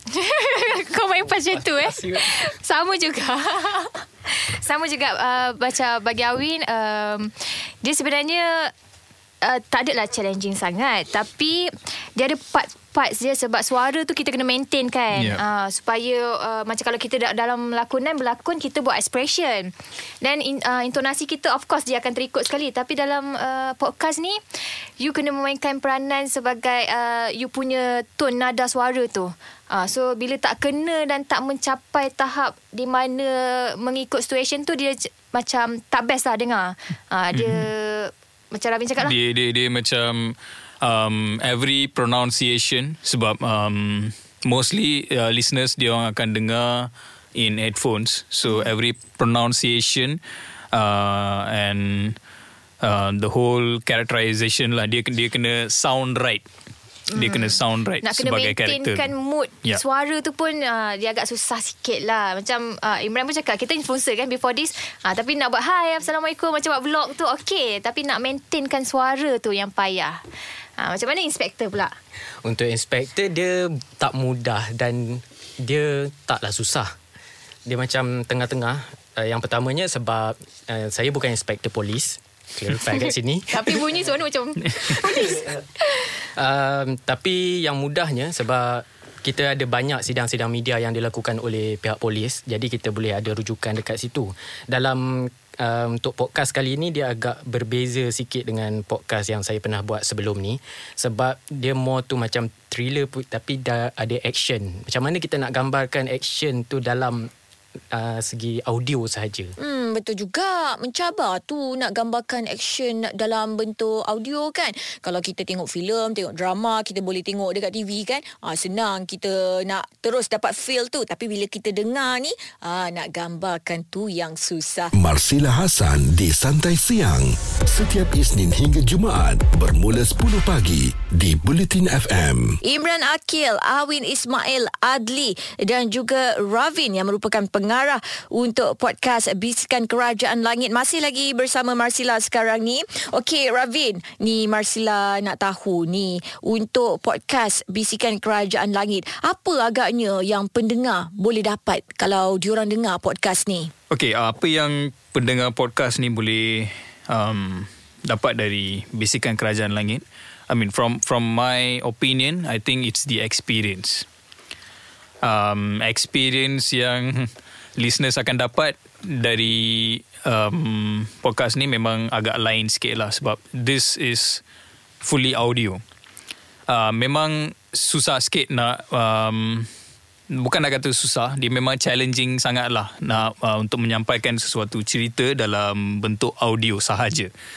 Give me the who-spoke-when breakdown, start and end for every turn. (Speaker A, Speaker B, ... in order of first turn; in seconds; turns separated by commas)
Speaker A: 0.1-8.7, Speaker B: 1.5-2.2, Speaker A: 9.4-24.4, Speaker C: 15.1-15.4, Speaker A: 25.0-39.1, Speaker C: 37.3-37.6, Speaker C: 39.0-50.2, Speaker C: 50.7-52.2, Speaker C: 52.8-56.4, Speaker A: 57.1-70.2, Speaker C: 57.1-59.1, Speaker A: 70.8-71.9, Speaker B: 72.4-76.9, Speaker B: 77.6-83.5, Speaker A: 82.9-86.1, Speaker B: 85.3-85.6, Speaker B: 86.2-107.3, Speaker B: 107.9-109.5, Speaker D: 109.6-124.9, Speaker E: 124.9-132.6, Speaker D: 132.6-153.7, Speaker C: 153.9-164.1, Speaker C: 165.2-174.4, Speaker C: 175.0-175.8, Speaker C: 176.7-179.7, Speaker C: 180.3-187.3